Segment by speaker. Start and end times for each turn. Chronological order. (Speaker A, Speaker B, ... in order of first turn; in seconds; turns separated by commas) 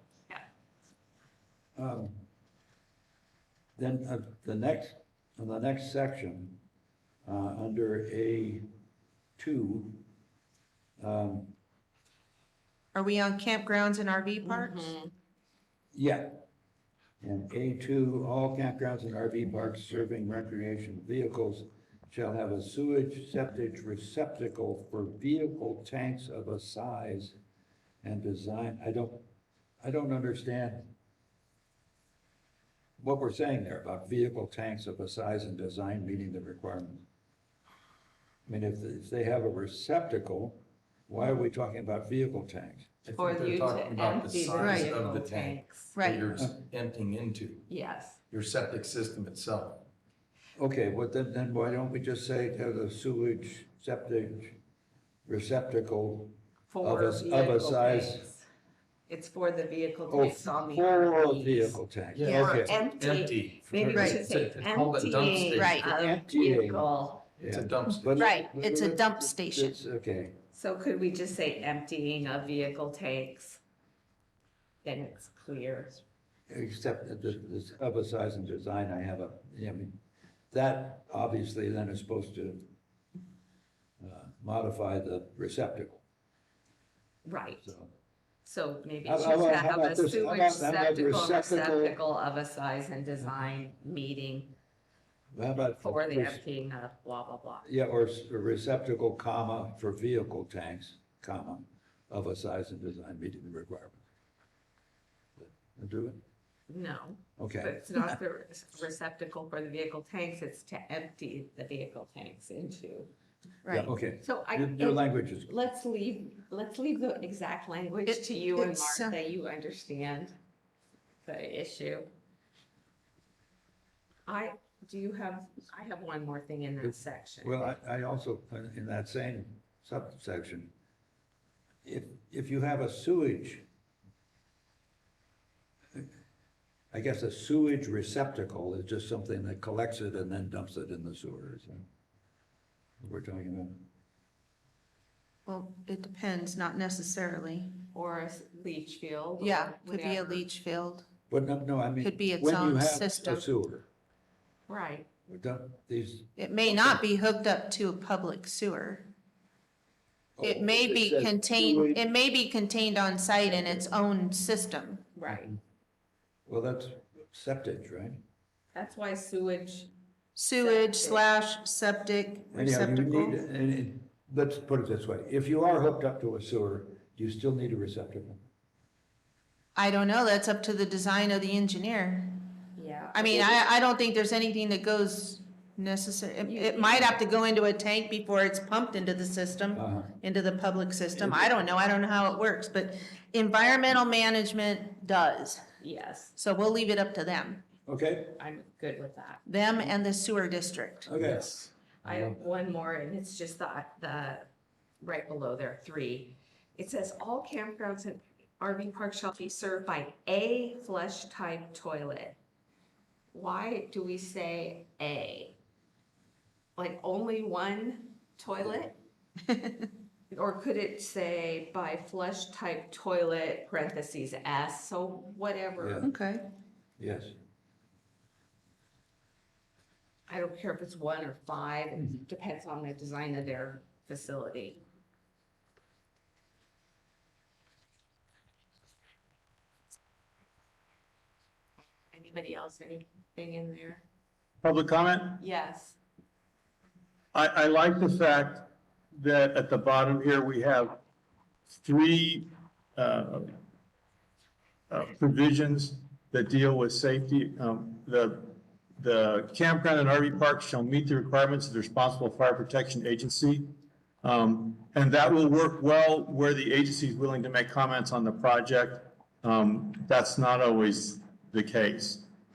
Speaker A: 1.8-2.2, Speaker A: 3.8-6.6, Speaker A: 7.2-8.7, Speaker A: 9.4-10.1, Speaker A: 11.0-11.6, Speaker B: 12.9-14.9, Speaker C: 14.4-15.1, Speaker A: 15.9-16.4, Speaker A: 17.2-27.4, Speaker A: 28.0-29.3, Speaker A: 29.8-31.0, Speaker A: 33.0-37.1, Speaker A: 38.5-42.9, Speaker D: 43.0-47.7, Speaker C: 43.1-46.0, Speaker B: 44.6-44.9, Speaker B: 46.0-46.2, Speaker C: 47.7-48.2, Speaker D: 48.3-49.9, Speaker A: 50.6-54.6, Speaker A: 55.3-58.3, Speaker C: 56.7-58.5, Speaker C: 59.1-67.3, Speaker A: 60.1-62.8, Speaker D: 62.1-65.9, Speaker B: 65.6-65.8, Speaker A: 65.8-70.4, Speaker D: 67.4-68.3, Speaker B: 68.2-69.8, Speaker C: 70.5-73.6, Speaker C: 74.8-76.0, Speaker A: 76.5-80.0, Speaker A: 80.5-82.7, Speaker A: 84.0-86.0, Speaker C: 87.2-87.7, Speaker A: 87.6-87.9, Speaker C: 88.4-94.5, Speaker A: 89.0-92.0, Speaker A: 95.3-96.4, Speaker C: 95.8-97.7, Speaker A: 97.7-104.0, Speaker A: 105.4-106.2, Speaker C: 106.7-113.1, Speaker A: 107.4-108.1, Speaker B: 113.6-113.9, Speaker A: 113.7-115.5, Speaker C: 114.2-120.4, Speaker B: 118.1-119.2, Speaker C: 121.2-122.1, Speaker C: 124.3-127.7, Speaker A: 127.4-130.7, Speaker A: 131.8-133.7, Speaker A: 136.9-141.9, Speaker A: 143.0-143.8, Speaker B: 145.5-147.8, Speaker C: 147.9-150.4, Speaker B: 149.4-151.1, Speaker A: 151.3-153.9, Speaker B: 152.0-153.4, Speaker C: 154.7-155.1, Speaker A: 155.3-157.0, Speaker B: 156.4-159.1, Speaker A: 160.4-162.0, Speaker B: 160.4-165.0, Speaker A: 163.4-163.9, Speaker C: 165.2-165.6, Speaker A: 166.5-168.2, Speaker C: 168.7-169.9, Speaker B: 170.4-173.4, Speaker C: 170.5-171.3, Speaker A: 172.5-178.4, Speaker B: 179.8-182.4, Speaker C: 182.8-183.6, Speaker B: 183.1-195.6, Speaker C: 186.5-187.2, Speaker A: 189.7-190.2, Speaker A: 191.2-191.7, Speaker C: 195.8-196.3, Speaker B: 196.4-197.6, Speaker A: 197.9-198.4, Speaker C: 198.4-199.4, Speaker B: 199.5-201.1, Speaker A: 201.1-201.5, Speaker D: 201.1-202.4, Speaker C: 202.0-204.5, Speaker C: 205.0-212.4, Speaker C: 213.3-215.6, Speaker C: 216.8-218.9, Speaker C: 220.3-226.1, Speaker A: 225.8-226.2, Speaker B: 226.0-226.4, Speaker A: 227.0-227.4, Speaker C: 230.3-234.8, Speaker C: 242.1-244.0, Speaker E: 244.6-245.4, Speaker C: 245.4-246.0, Speaker E: 247.3-251.0, Speaker E: 251.8-253.5, Speaker E: 254.9-263.7, Speaker E: 264.2-272.2